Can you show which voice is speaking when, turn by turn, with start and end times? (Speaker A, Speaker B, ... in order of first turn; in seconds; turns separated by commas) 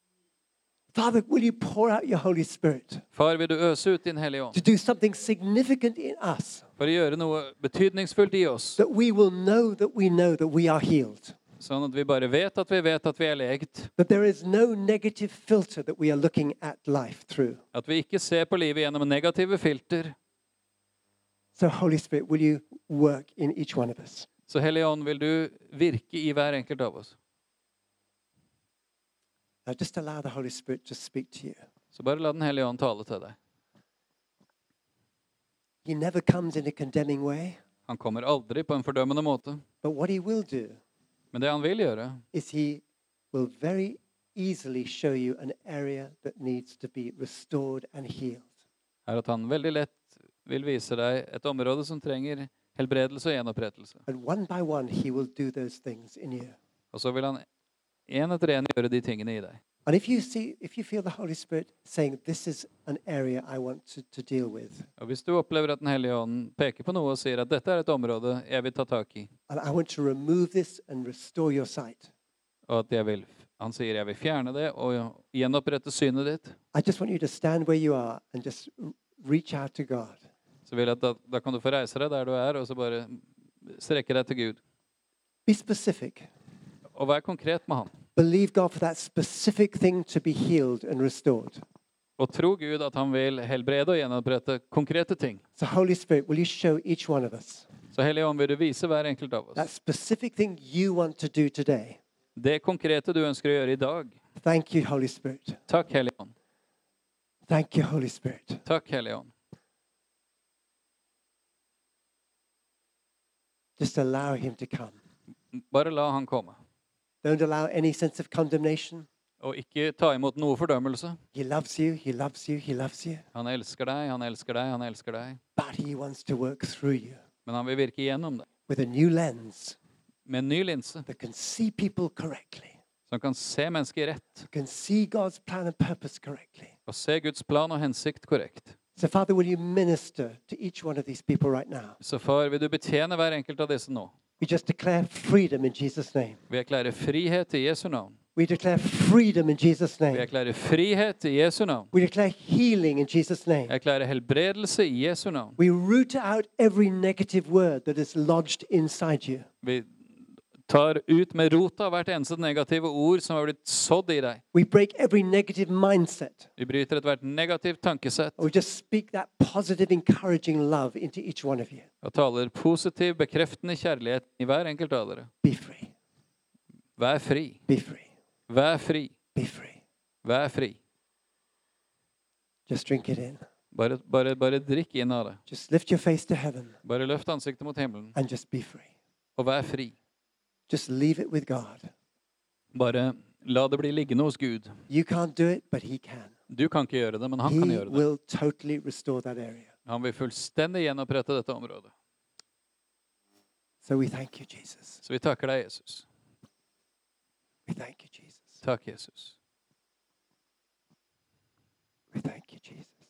Speaker A: 0.9-3.0, Speaker B: 3.1-4.6, Speaker A: 4.5-6.7, Speaker B: 6.8-8.8, Speaker A: 8.8-11.4, Speaker B: 11.6-13.9, Speaker A: 14.0-17.6, Speaker B: 17.7-20.1, Speaker A: 21.5-24.3, Speaker B: 24.5-27.1, Speaker A: 29.6-31.6, Speaker B: 31.9-33.3, Speaker A: 35.8-37.6, Speaker B: 37.9-39.6, Speaker A: 39.8-40.8, Speaker B: 41.3-42.2, Speaker A: 42.3-48.5, Speaker B: 49.1-54.0, Speaker A: 54.1-56.5, Speaker B: 56.9-57.4, Speaker B: 58.1-59.6, Speaker A: 59.9-64.9, Speaker B: 65.0-69.3, Speaker A: 69.5-72.1, Speaker B: 72.7-76.5, Speaker A: 76.7-80.2, Speaker B: 80.7-84.6, Speaker A: 85.5-86.3, Speaker B: 87.0-87.9, Speaker A: 88.2-91.6, Speaker B: 92.2-95.4, Speaker A: 95.6-97.7, Speaker B: 97.9-99.7, Speaker A: 99.5-102.0, Speaker B: 102.3-104.2, Speaker A: 104.4-105.6, Speaker B: 105.7-106.3, Speaker A: 107.5-108.6, Speaker B: 108.6-109.3, Speaker A: 113.8-115.0, Speaker B: 115.5-116.5, Speaker A: 117.2-119.1, Speaker B: 119.4-121.2, Speaker A: 121.3-123.2, Speaker B: 123.3-125.4, Speaker A: 125.5-127.2, Speaker B: 127.5-128.5, Speaker A: 128.7-129.8, Speaker B: 130.3-131.0, Speaker A: 131.1-132.8, Speaker B: 133.1-134.5, Speaker A: 134.5-136.7, Speaker B: 136.9-138.7, Speaker A: 139.0-142.0, Speaker B: 142.0-144.1, Speaker A: 144.4-146.4, Speaker B: 146.5-148.2, Speaker A: 148.3-150.3, Speaker B: 150.1-151.9, Speaker A: 151.9-153.7, Speaker B: 153.7-155.6, Speaker A: 155.6-159.5, Speaker B: 159.6-159.9, Speaker B: 160.7-164.4, Speaker A: 164.5-166.5, Speaker B: 166.6-168.4, Speaker A: 168.4-171.9, Speaker B: 172.0-175.3, Speaker A: 175.4-175.9, Speaker B: 177.0-177.6, Speaker A: 177.7-178.1, Speaker B: 178.5-179.1, Speaker A: 179.3-179.8, Speaker B: 180.2-180.8, Speaker A: 182.7-183.4, Speaker B: 183.7-185.4, Speaker A: 185.5-186.8, Speaker B: 186.8-188.2, Speaker A: 188.1-188.9, Speaker B: 189.4-189.9, Speaker A: 190.7-191.9, Speaker B: 192.7-194.7, Speaker A: 194.9-196.3, Speaker B: 196.5-198.0, Speaker A: 197.4-199.7, Speaker B: 199.9-201.9, Speaker A: 203.8-205.0, Speaker B: 205.0-206.0, Speaker A: 207.7-208.5, Speaker B: 208.6-209.3, Speaker A: 212.1-213.0